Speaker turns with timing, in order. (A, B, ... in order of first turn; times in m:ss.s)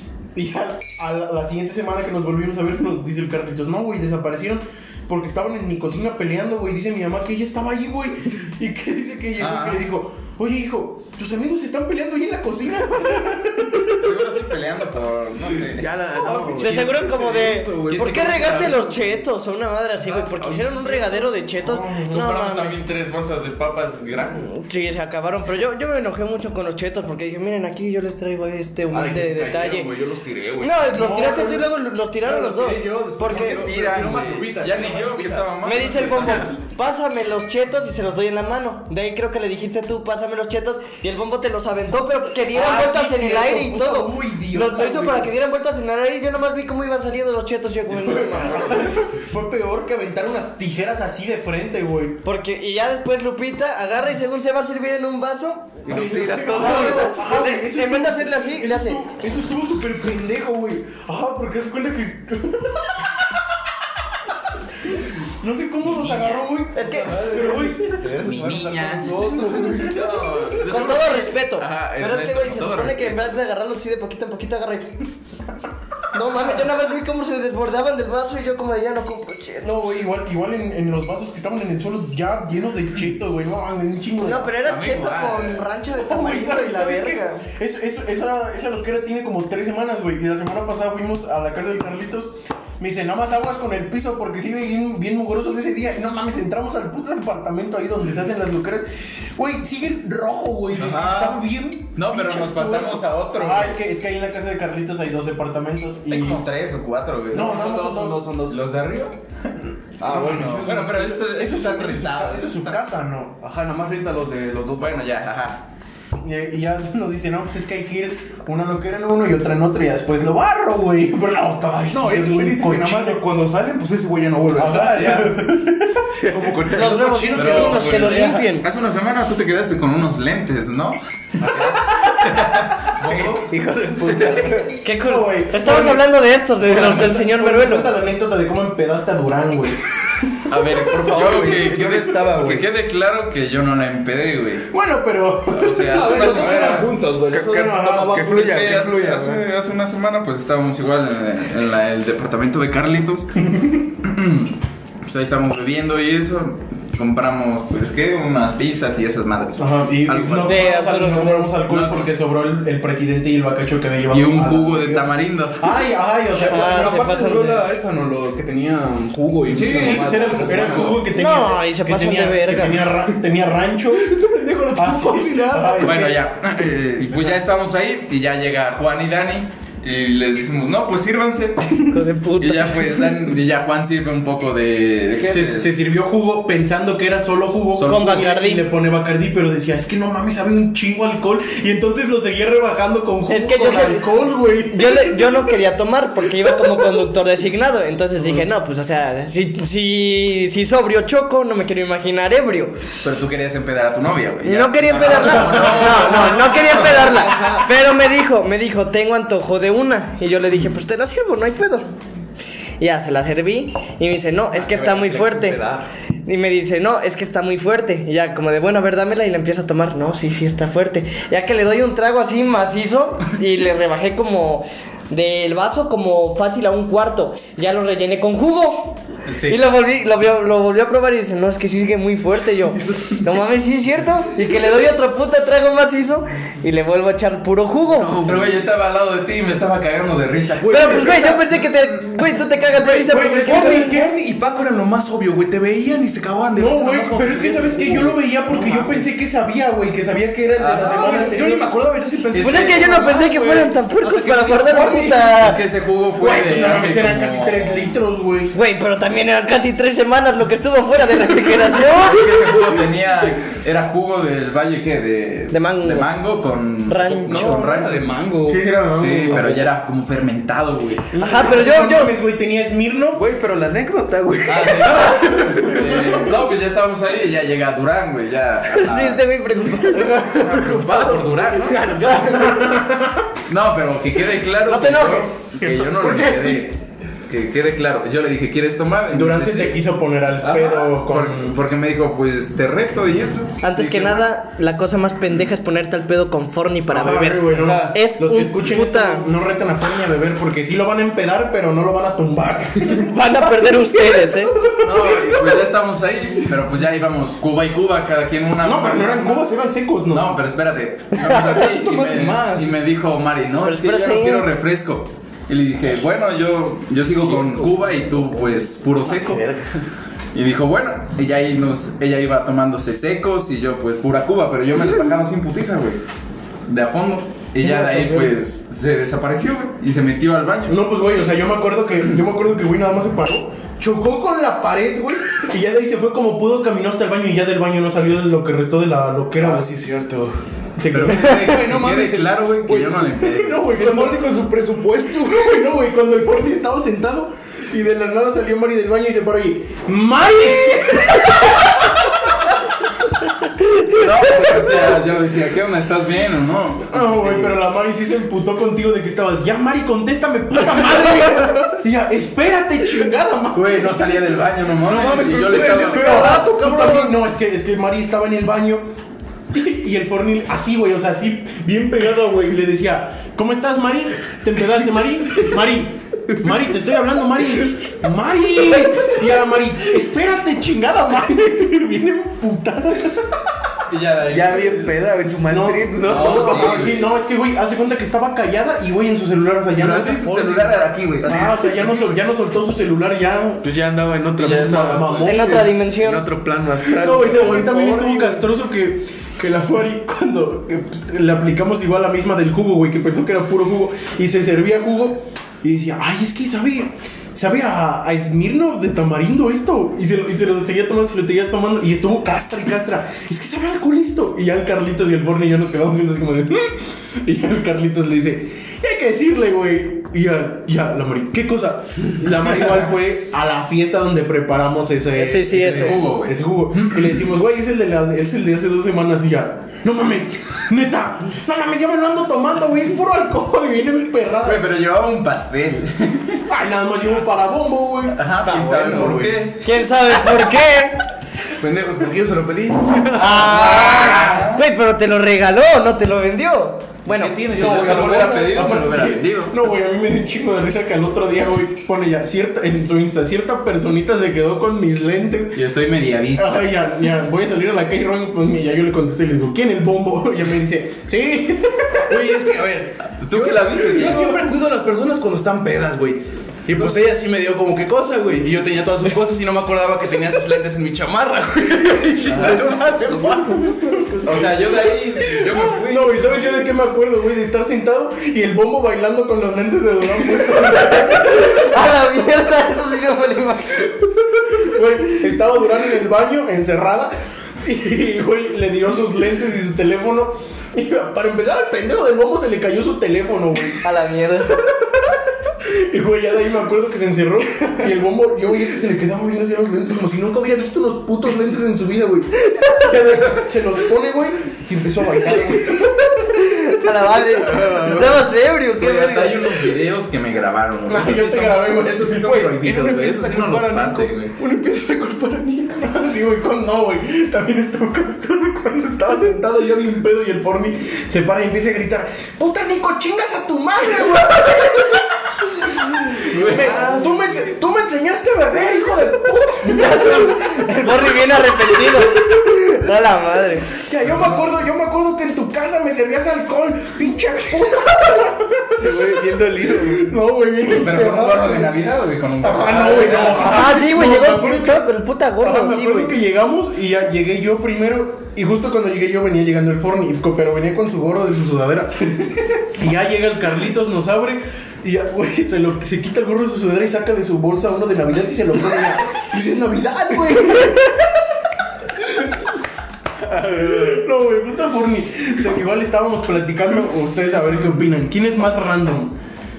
0:00.4-0:14.3 A
0:09.4-0:09.9 B
0:13.8-0:15.9 B
0:15.7-0:18.7 C
0:16.2-0:16.8 A
0:16.3-0:18.0 D
0:16.6-0:22.8 E
0:17.9-0:19.1 B
0:20.1-0:21.3 D
0:21.6-0:22.2 A
0:22.1-0:24.4 B
0:24.4-0:29.9 E
0:28.9-0:31.6 D
0:30.6-0:33.6 E
0:30.9-0:31.6 A
0:32.2-0:35.5 D
0:33.3-0:36.6 B
0:35.6-0:48.9 E
0:36.2-0:36.5 C
0:42.5-0:45.3 A
0:47.9-0:52.2 A
0:52.2-0:59.0 E
0:55.8-0:57.2 C
0:55.9-1:03.4 A
1:05.4-1:08.4 A
1:05.8-1:06.6 B
1:06.7-1:07.2 E
1:07.0-1:10.1 D
1:07.2-1:09.9 C
1:08.0-1:13.4 B
1:09.2-1:09.9 A
1:10.6-1:15.0 E
1:16.1-1:19.7 E
1:16.3-1:16.7 A
1:19.6-1:24.6 A
1:24.2-1:27.5 E
1:24.6-1:25.7 B
1:26.0-1:46.4 A
1:40.7-1:43.8 B
1:46.1-1:47.6 B
1:47.3-1:48.4 A
1:47.3-1:48.6 D
1:48.5-1:52.8 B
1:50.0-1:52.8 D
1:51.2-1:53.4 A
1:53.4-1:55.1 D
1:54.8-1:55.6 B
1:56.2-2:03.2 A
2:01.9-2:05.6 D
2:04.5-2:06.1 A
2:06.1-2:07.3 C
2:06.4-2:07.3 D
2:06.7-2:08.7 E
2:06.8-2:08.3 A
2:07.3-2:11.4 B
2:11.4-2:12.2 D
2:12.2-2:13.5 B
2:13.2-2:14.8 C
2:14.8-2:18.0 E
2:14.9-2:19.8 A
2:20.5-2:24.7 B
2:20.9-2:22.7 C
2:24.7-2:28.6 A
2:25.5-2:26.9 B
2:25.9-2:28.1 D
2:26.2-2:26.7 C
2:27.3-2:29.4 C
2:28.2-2:33.3 B
2:34.0-2:40.7 B
2:39.6-2:45.1 A
2:40.4-2:41.6 E
2:41.7-2:42.2 B
2:44.1-2:45.6 B
2:45.6-2:47.0 A
2:46.3-2:51.0 D
2:46.4-2:47.7 E
2:49.5-2:51.0 B
2:49.6-2:54.1 A
2:51.1-2:52.9 E
2:54.0-2:55.9 D
2:54.8-2:56.2 A
2:55.2-2:55.8 C
2:55.8-3:05.7 B
3:01.9-3:03.0 E
3:05.3-3:15.5 A
3:07.8-3:08.3 B
3:07.8-3:08.6 E
3:13.3-3:14.1 E
3:14.7-3:22.8 E
3:16.4-3:17.0 A
3:18.2-3:18.5 A
3:23.0-3:27.4 B
3:24.4-3:31.9 E
3:25.4-3:25.9 A
3:32.8-3:35.6 E
3:34.5-3:35.9 D
3:36.3-3:58.2 E
3:49.3-3:49.6 B
3:52.9-3:53.2 D
3:57.9-3:58.6 C
3:58.2-4:01.3 B
4:00.6-4:01.5 A
4:00.7-4:04.0 E
4:02.8-4:09.1 D
4:03.1-4:04.2 A
4:06.5-4:11.7 A
4:10.6-4:11.4 B
4:10.6-4:15.3 D
4:12.3-4:13.0 B
4:12.4-4:15.6 E
4:15.2-4:18.0 B
4:16.2-4:18.6 A
4:18.5-4:22.5 E
4:21.7-4:28.3 B
4:25.5-4:26.1 E
4:26.9-4:27.7 E
4:27.3-4:28.5 C
4:27.8-4:28.6 D
4:28.5-4:29.7 A
4:28.9-4:31.1 B
4:29.3-4:29.6 C
4:31.1-4:33.2 A
4:31.2-4:32.2 E
4:33.1-4:36.1 C
4:34.5-4:39.6 B
4:38.7-4:40.4 E
4:39.9-4:43.3 A
4:40.2-4:41.9 B
4:43.5-4:46.8 B
4:44.7-4:45.4 E
4:45.6-4:46.6 A
4:47.3-4:49.8 B
4:49.1-4:51.6 A
4:50.4-4:54.3 B
4:53.6-4:59.3 E
4:56.9-5:05.4 A
4:57.6-4:58.0 D
5:02.8-5:04.6 E
5:04.7-5:09.5 B
5:08.6-5:10.4 A
5:10.1-5:19.4 B
5:11.4-5:12.8 D
5:13.6-5:14.5 E
5:17.2-5:17.8 D
5:19.0-5:19.6 D
5:20.3-5:26.0 B
5:26.7-5:30.8 B
5:27.6-5:28.4 A
5:30.7-5:39.6 A
5:39.4-5:40.4 D
5:40.8-5:44.4 A
5:40.9-5:43.7 B
5:43.7-5:45.5 D
5:45.2-5:52.3 A
5:53.8-5:54.5 E
5:53.9-5:57.5 B
5:56.9-6:04.3 A
6:03.5-6:06.5 B
6:04.8-6:07.2 D
6:05.4-6:08.9 A
6:09.5-6:23.4 A
6:23.9-6:25.1 B
6:24.3-6:27.0 C
6:25.5-6:30.5 A
6:26.0-6:27.0 B
6:29.8-6:31.4 B
6:30.0-6:31.6 D
6:31.2-6:33.7 A
6:31.3-6:32.0 C
6:33.6-6:38.4 C
6:34.4-6:35.4 B
6:34.5-6:35.7 A
6:35.2-6:36.2 E
6:36.8-7:14.7 A
7:05.2-7:06.0 E
7:05.5-7:07.2 B
7:14.4-7:16.4 B
7:16.5-7:19.4 A
7:18.1-7:19.7 B
7:18.6-7:19.3 D
7:19.6-7:21.0 E
7:21.5-7:24.5 D
7:23.1-7:27.4 E
7:23.5-7:24.6 B
7:23.9-7:24.2 A
7:27.1-7:28.7 D
7:27.5-7:29.6 B
7:27.5-7:35.7 A
7:35.6-7:36.8 B
7:36.3-7:42.2 A
7:42.1-7:54.1 D
7:43.1-7:44.4 B
7:44.0-7:44.5 A
7:52.3-7:52.7 B
7:52.4-7:54.7 A
7:54.2-7:56.3 B
7:55.4-8:01.7 A
8:00.7-8:04.0 E
8:04.4-8:13.8 A
8:13.8-8:14.6 E
8:15.6-8:26.8 A
8:26.3-8:29.6 E
8:28.8-8:34.4 B
8:30.9-8:51.1 A
8:46.3-8:46.8 B
8:46.5-8:47.5 D
8:49.7-8:53.8 E
8:53.9-9:01.8 A
8:54.0-8:54.4 B
8:58.8-9:00.1 C
9:00.7-9:03.6 B
9:02.4-9:12.1 A
9:02.6-9:03.4 C
9:03.3-9:06.2 E
9:12.7-9:21.2 A
9:22.0-9:22.5 A
9:23.3-9:24.0 C
9:23.5-9:29.2 A